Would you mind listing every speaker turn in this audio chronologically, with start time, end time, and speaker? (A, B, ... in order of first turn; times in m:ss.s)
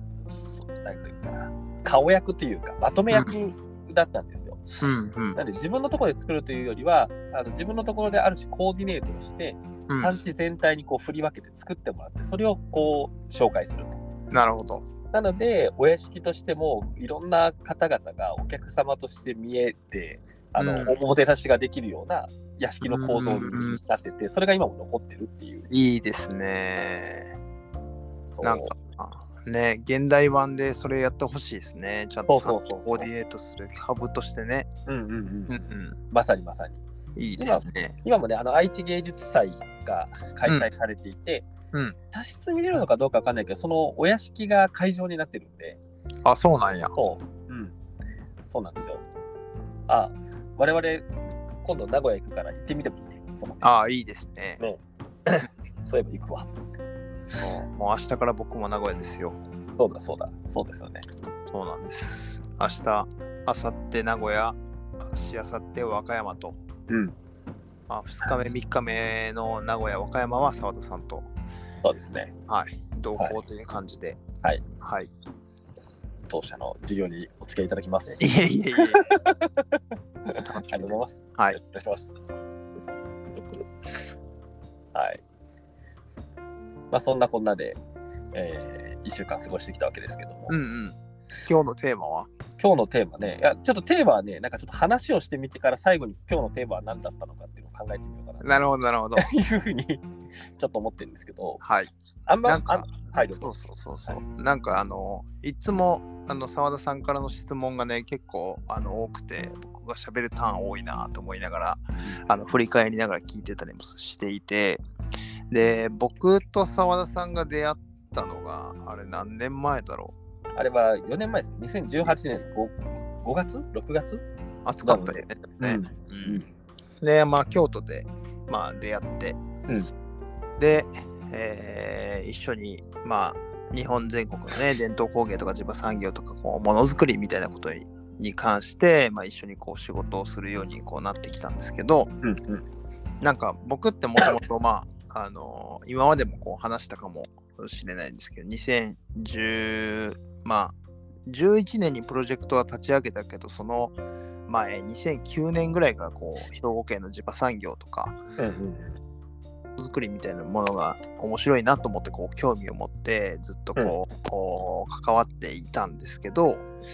0:00.2-0:04.6 A
0:04.8-0:05.4 B
0:05.3-0:14.0 A
0:09.9-0:10.2 B
0:14.3-0:14.9 B
0:15.1-0:25.7 A
0:20.6-0:21.0 B
0:22.8-0:23.8 B
0:25.7-0:27.3 B
0:28.3-0:28.7 A
0:28.4-0:34.7 B
0:32.3-0:33.1 A
0:34.9-0:36.8 A
0:35.5-0:36.0 B
0:37.2-0:38.0 B
0:37.4-0:41.5 A
0:42.1-0:45.8 A
0:46.2-0:46.9 B
0:46.9-0:47.7 A
0:48.4-0:49.0 A
0:49.9-0:51.1 A
0:51.6-0:53.6 A
0:53.6-0:54.6 B
0:54.6-0:56.6 A
0:57.4-0:59.4 B
0:59.8-1:01.0 A
1:01.5-1:06.6 B
1:06.9-1:07.1 A
1:07.9-1:11.3 B
1:11.8-1:12.3 A
1:12.5-1:14.2 B
1:14.8-1:15.1 B
1:16.3-1:22.1 A
1:18.2-1:19.0 B
1:20.4-1:21.6 B
1:24.9-1:25.2 A
1:26.9-1:27.8 A
1:28.3-1:30.5 A
1:30.5-1:32.3 B
1:32.6-1:38.5 A
1:38.4-1:39.3 B
1:39.2-1:40.0 A
1:40.6-1:41.6 A
1:41.6-1:41.9 B
1:42.3-1:43.5 A
1:42.4-1:54.8 B
1:55.5-2:00.1 B
2:00.6-2:04.2 A
2:04.6-2:06.4 B
2:04.8-2:06.5 A
2:07.0-2:09.4 B
2:10.6-2:22.1 B
2:22.2-2:22.6 A
2:23.2-2:30.7 B
2:31.2-2:33.9 B
2:34.5-2:38.2 B
2:38.4-2:39.0 A
2:39.8-2:46.7 B